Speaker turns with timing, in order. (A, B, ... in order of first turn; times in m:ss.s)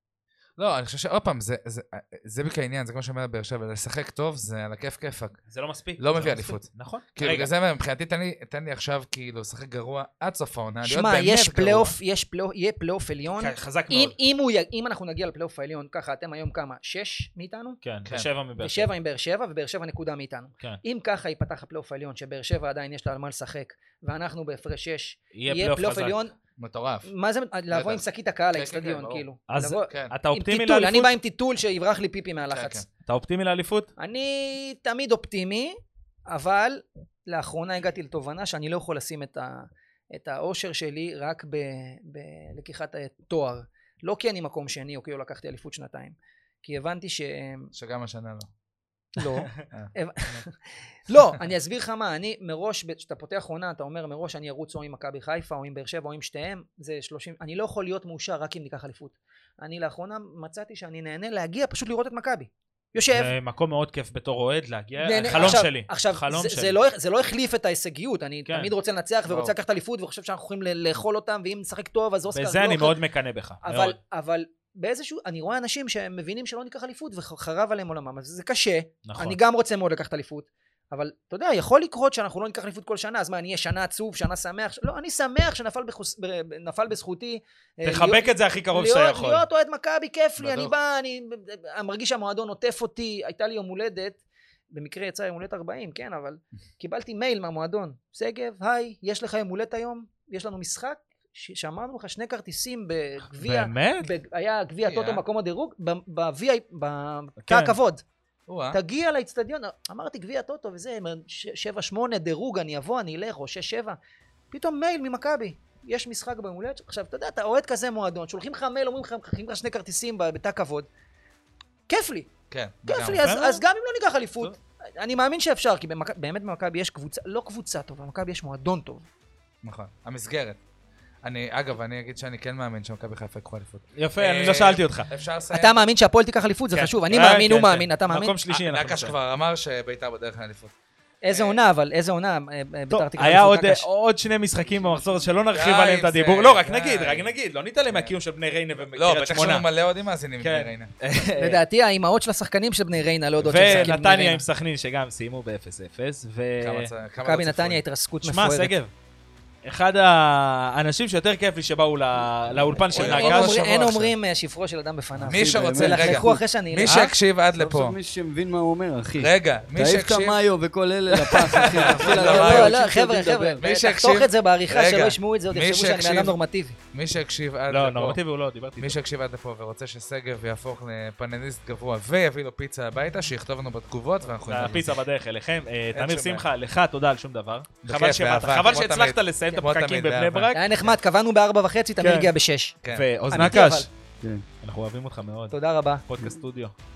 0:00.6-0:05.4 A
0:05.5-0:07.5 B
0:06.0-0:12.0 A
0:10.8-0:17.8 C
0:13.4-0:14.2 B
0:17.8-0:18.9 B
0:18.6-0:26.3 C
0:25.3-0:26.2 B
0:26.6-0:27.1 A
0:27.0-0:32.8 C
0:27.7-0:29.2 A
0:29.5-0:31.1 B
0:29.9-0:30.1 A
0:32.5-0:32.8 A
0:33.0-0:33.9 B
0:34.0-0:35.8 C
0:36.3-0:47.7 C
0:47.7-0:48.5 A
0:49.1-1:03.3 C
0:49.7-0:50.4 A
1:03.1-1:06.8 B
1:05.0-1:13.0 C
1:08.5-1:08.7 B
1:09.3-1:09.5 A
1:12.3-1:14.0 B
1:13.6-1:34.2 C
1:19.0-1:19.4 B
1:27.8-1:29.4 B
1:30.4-1:30.7 A
1:34.7-1:48.0 C
1:43.4-1:44.1 B
1:44.8-1:45.2 A
1:47.4-1:47.7 B
1:48.5-1:48.8 A
1:48.7-1:54.0 C
1:54.5-2:00.9 C
2:01.9-2:02.3 C
2:02.5-2:03.2 A
2:02.8-2:09.1 C
2:03.2-2:03.6 B
2:09.6-2:10.6 A
2:11.2-2:15.8 A
2:14.0-2:15.1 B
2:15.5-2:18.4 C
2:16.7-2:19.2 B
2:18.5-2:20.7 A
2:21.2-2:23.9 C
2:21.3-2:21.6 A
2:22.9-2:29.6 B
2:25.5-2:27.3 A
2:27.9-2:28.1 A
2:28.9-2:30.9 A
2:30.4-2:31.6 B
2:31.4-2:34.4 C
2:33.4-2:36.9 B
2:33.5-2:33.9 A
2:36.6-2:37.8 A
2:37.2-2:38.7 C
2:38.2-2:38.9 B
2:39.6-2:43.6 B
2:42.9-2:44.1 A
2:42.9-2:47.1 C
2:45.2-2:46.4 D
2:45.3-2:48.0 A
2:47.6-2:53.6 D
2:49.2-2:50.4 A
2:51.2-2:52.8 A
2:51.6-2:56.8 C
2:53.6-2:56.4 A
2:56.9-2:58.2 A
2:57.7-2:59.0 B
2:58.8-3:04.9 A
3:04.5-3:11.0 B
3:05.9-3:06.4 A
3:07.8-3:10.5 A
3:10.5-3:12.8 C
3:12.0-3:12.3 B
3:12.9-3:13.9 B
3:13.3-3:13.9 C
3:14.6-3:16.7 B
3:15.5-3:16.0 C